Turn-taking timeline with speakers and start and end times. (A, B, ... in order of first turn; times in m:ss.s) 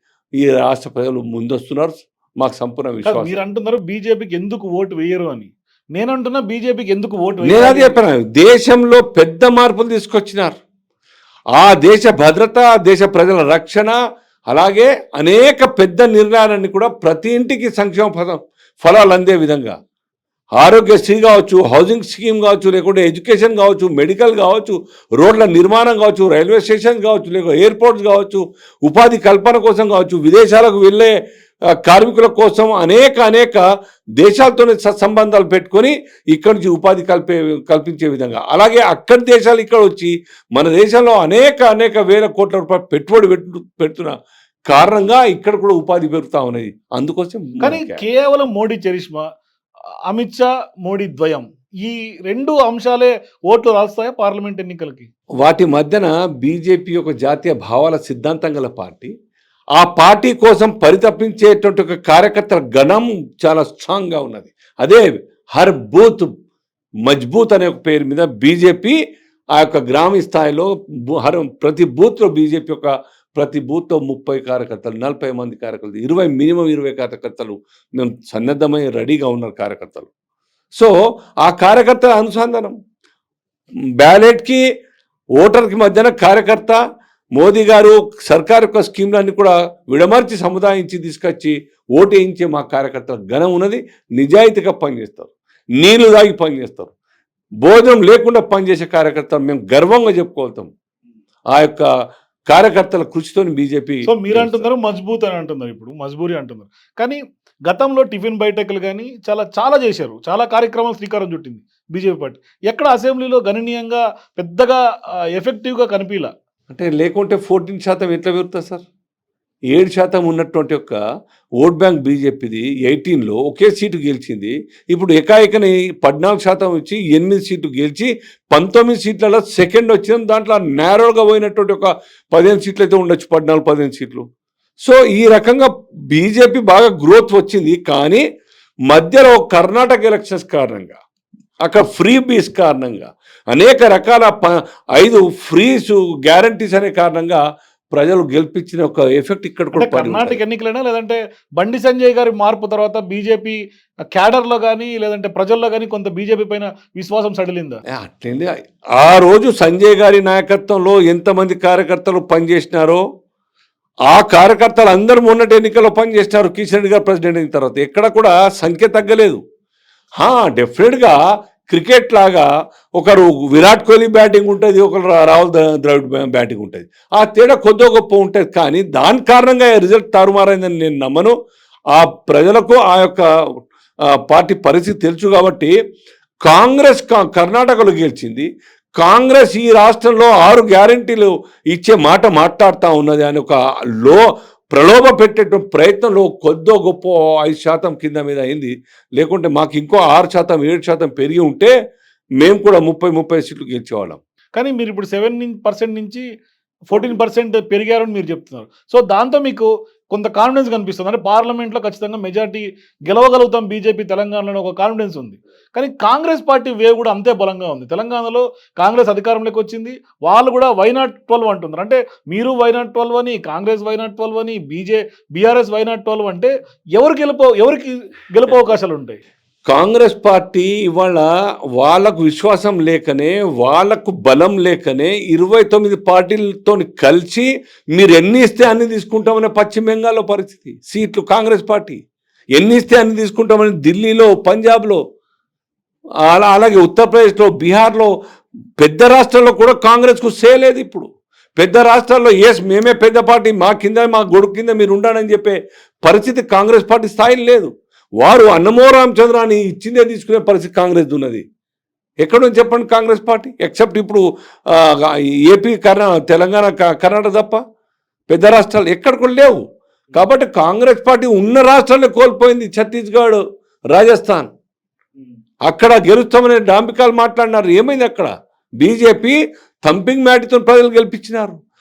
0:00.4-0:03.4 A
0:03.0-0:08.0 B
0:07.4-0:10.6 A
0:11.6-0:14.0 A
0:14.5-0:19.8 A
0:20.6-0:31.2 A
0:31.7-0:33.6 A
0:34.2-0:44.1 A
0:44.7-0:48.0 A
0:47.6-0:49.2 B
0:50.1-0:55.1 B
0:55.4-0:59.1 A
0:59.8-1:06.3 A
1:07.0-1:09.0 A
1:09.6-1:20.1 A
1:20.8-1:22.8 A
1:24.0-1:24.6 A
1:25.4-1:26.8 A
1:27.4-1:36.9 A
1:37.6-1:40.7 A
1:41.5-1:41.9 A
1:42.5-1:44.7 A
1:44.1-1:54.8 B
1:55.4-1:56.3 B
1:56.7-1:58.8 A
1:59.7-2:01.0 A
2:01.6-2:14.2 A
2:14.8-2:18.2 A
2:18.9-2:21.0 A
2:21.6-2:30.4 A
2:29.7-2:33.6 B
2:34.1-2:37.8 B
2:37.9-2:43.0 A
2:44.1-2:49.4 A
2:50.2-2:51.2 A
2:51.7-3:01.3 A
3:01.9-3:03.3 A
3:04.1-3:05.7 A
3:06.4-3:21.7 A
3:22.4-3:24.2 A
3:24.6-3:26.2 B
3:26.9-3:49.2 B
3:49.7-4:02.0 A
4:02.6-4:05.0 A
4:06.2-4:08.1 A
4:08.8-4:17.7 A
4:18.2-4:21.4 A
4:22.2-4:27.6 A
4:28.3-4:29.6 A
4:30.1-4:33.4 A
4:33.9-4:34.5 A
4:35.7-4:41.6 A